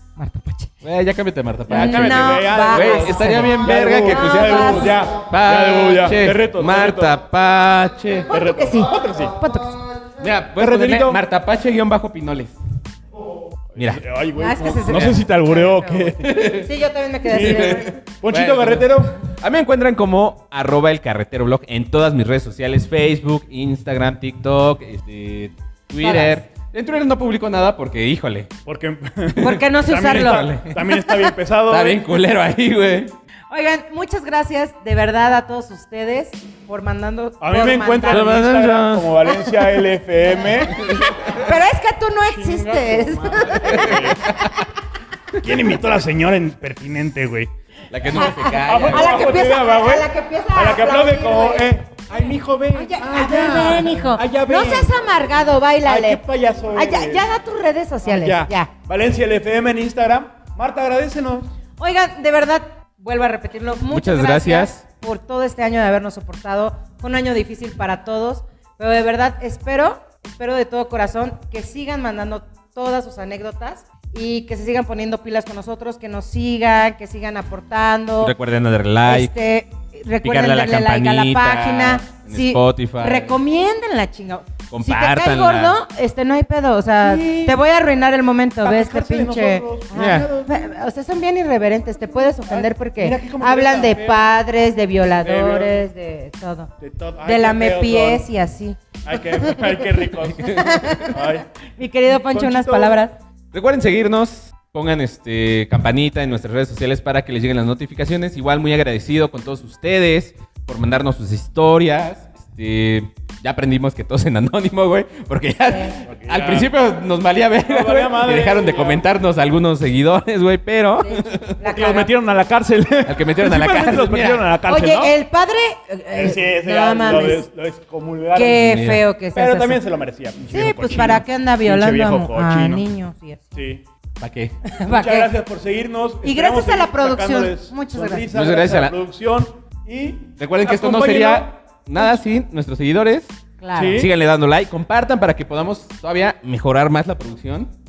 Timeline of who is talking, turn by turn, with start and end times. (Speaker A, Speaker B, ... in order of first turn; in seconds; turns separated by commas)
Speaker A: 0.2-0.7, Speaker B: 0.8-8.3, Speaker A: 1.7-5.0, Speaker C: 1.7-7.2, Speaker A: 8.3-9.9, Speaker C: 8.3-9.3, Speaker B: 10.2-12.6, Speaker C: 10.6-11.2, Speaker C: 13.8-16.5, Speaker B: 13.8-14.0, Speaker A: 14.3-17.9, Speaker B: 16.2-16.7, Speaker C: 17.3-19.1, Speaker B: 17.3-28.5, Speaker A: 26.0-26.4, Speaker C: 28.7-32.0, Speaker B: 29.4-30.8, Speaker A: 29.4-31.3, Speaker B: 31.7-33.1, Speaker A: 33.5-38.3, Speaker C: 37.4-40.8, Speaker B: 38.1-39.2, Speaker B: 40.7-41.4, Speaker A: 40.7-44.7, Speaker C: 42.3-44.2, Speaker B: 43.5-44.5, Speaker C: 45.4-47.5, Speaker B: 47.9-49.4, Speaker A: 48.1-51.7, Speaker C: 48.7-55.0, Speaker A: 52.7-56.2, Speaker C: 55.8-57.3, Speaker A: 56.8-58.7, Speaker C: 58.0-61.5, Speaker A: 61.8-78.3, Speaker B: 63.9-64.8, Speaker B: 78.2-79.3, Speaker A: 79.1-96.7, Speaker B: 80.2-83.4, Speaker B: 84.7-85.8, Speaker C: 87.0-87.6, Speaker C: 88.6-90.7, Speaker B: 90.0-90.3, Speaker C: 92.5-94.3, Speaker C: 95.2-95.9, Speaker C: 96.8-98.3, Speaker A: 97.2-99.9, Speaker C: 99.0-101.5, Speaker B: 100.3-101.1, Speaker A: 100.5-101.2, Speaker A: 101.8-103.1, Speaker C: 102.2-103.0, Speaker B: 103.5-121.6, Speaker A: 115.7-115.9, Speaker C: 116.1-116.7, Speaker C: 117.7-119.1, Speaker A: 121.0-122.1, Speaker C: 121.6-125.1, Speaker B: 123.0-124.5, Speaker A: 124.6-127.5, Speaker C: 126.1-128.8, Speaker A: 128.3-129.8, Speaker B: 128.6-129.0, Speaker C: 129.3-132.9, Speaker A: 130.5-133.5, Speaker C: 133.6-133.8, Speaker B: 134.2-134.6, Speaker A: 134.7-135.3, Speaker C: 134.9-141.5, Speaker A: 136.2-138.3, Speaker B: 138.3-138.9, Speaker B: 140.4-147.7, Speaker A: 143.6-144.1, Speaker C: 143.8-144.1